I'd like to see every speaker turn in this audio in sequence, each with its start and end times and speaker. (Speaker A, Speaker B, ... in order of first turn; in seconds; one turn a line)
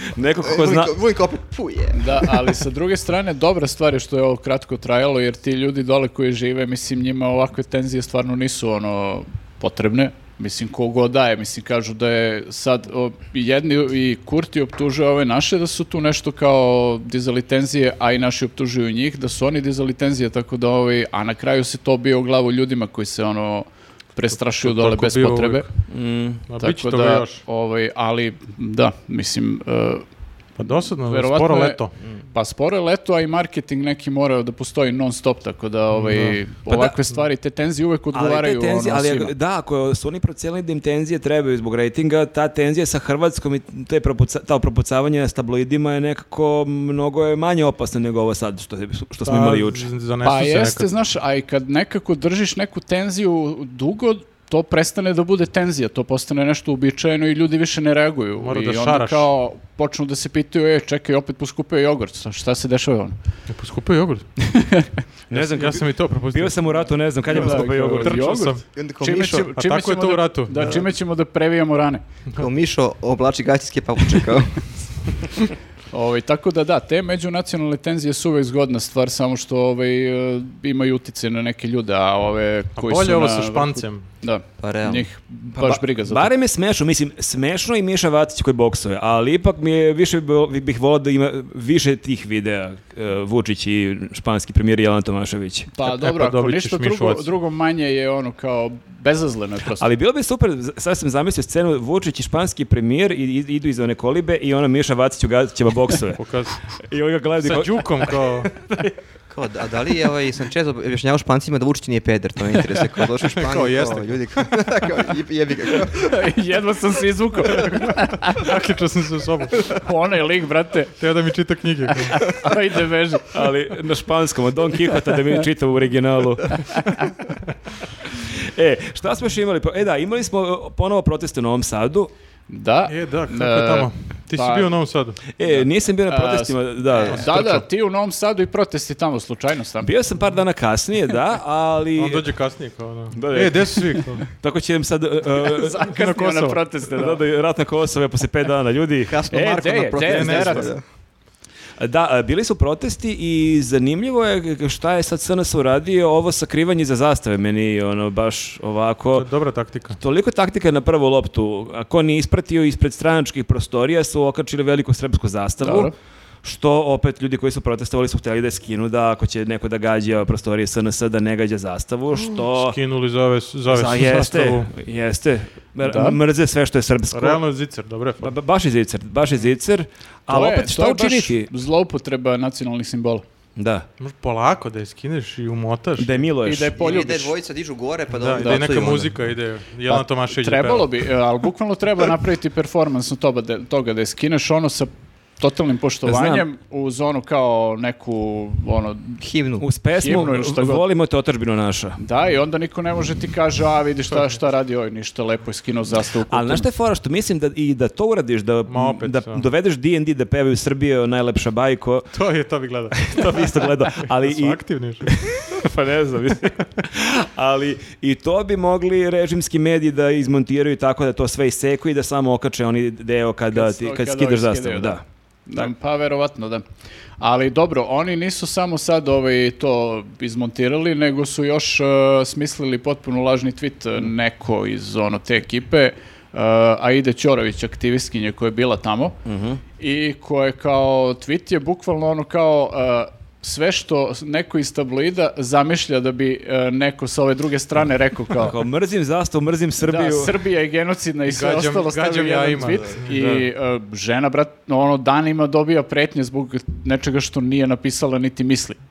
Speaker A: 0.1-1.0
Speaker B: 0.4-2.5
Speaker C: 1.9-25.6
Speaker D: 24.6-25.7
Speaker A: 25.9-26.4
Speaker D: 26.5-27.4
Speaker C: 26.6-30.0
Speaker D: 30.6-31.9
Speaker C: 30.6-39.3
Speaker D: 35.9-36.4
Speaker A: 36.7-37.0
Speaker A: 38.1-49.9
Speaker D: 49.2-50.9
Speaker C: 50.2-63.1
Speaker D: 58.4-59.3
Speaker D: 63.5-64.3
Speaker C: 64.4-64.9
Speaker A: 65.3-68.4
Speaker D: 65.3-70.9
Speaker C: 67.3-72.0
Speaker B: 68.7-69.5
Speaker B: 72.4-74.7
Speaker C: 75.9-86.3
Speaker D: 82.8-84.1
Speaker B: 84.6-85.1
Speaker A: 85.6-95.7
Speaker C: 95.7-99.9
Speaker D: 95.8-97.3
Speaker A: 99.8-108.9
Speaker D: 106.2-106.6
Speaker D: 107.4-108.5
Speaker B: 109.3-116.2
Speaker D: 113.2-114.2
Speaker C: 116.0-118.5
Speaker D: 117.6-119.7
Speaker C: 119.7-120.9
Speaker D: 121.0-122.3
Speaker C: 122.0-123.5
Speaker A: 123.3-126.8
Speaker C: 126.5-127.1
Speaker A: 128.1-132.1
Speaker C: 132.5-134.7
Speaker D: 132.9-135.2
Speaker A: 135.4-137.4
Speaker C: 135.4-139.9
Speaker D: 137.1-137.6
Speaker A: 139.8-142.3
Speaker D: 142.0-144.2
Speaker A: 143.1-145.9
Speaker C: 145.4-147.2
Speaker D: 145.8-146.6
Speaker A: 146.9-149.2
Speaker B: 149.1-150.8
Speaker C: 149.3-150.7
Speaker D: 150.0-150.7
Speaker A: 151.8-159.3
Speaker D: 159.2-160.0
Speaker A: 160.0-165.9
Speaker C: 165.6-165.9
Speaker A: 166.4-172.8
Speaker D: 172.5-174.7
Speaker A: 173.7-177.4
Speaker C: 175.8-176.2
Speaker D: 177.1-178.3
Speaker A: 178.2-181.5
Speaker C: 180.3-183.2
Speaker A: 183.6-183.9
Speaker D: 184.0-186.3
Speaker A: 186.0-186.8
Speaker C: 186.4-187.3
Speaker B: 186.8-189.2
Speaker D: 188.1-190.9
Speaker C: 188.4-188.7
Speaker C: 189.9-199.2
Speaker A: 196.1-196.4
Speaker B: 199.2-199.6
Speaker A: 199.6-202.0
Speaker C: 199.9-200.8
Speaker C: 202.0-206.7
Speaker A: 206.3-212.1
Speaker D: 208.7-209.4
Speaker D: 212.1-213.5
Speaker A: 213.1-225.0
Speaker D: 214.0-215.1
Speaker C: 223.5-226.6
Speaker C: 227.2-239.2
Speaker A: 239.2-239.6
Speaker C: 239.8-248.6
Speaker A: 248.4-250.4
Speaker C: 249.8-258.8
Speaker D: 251.3-253.5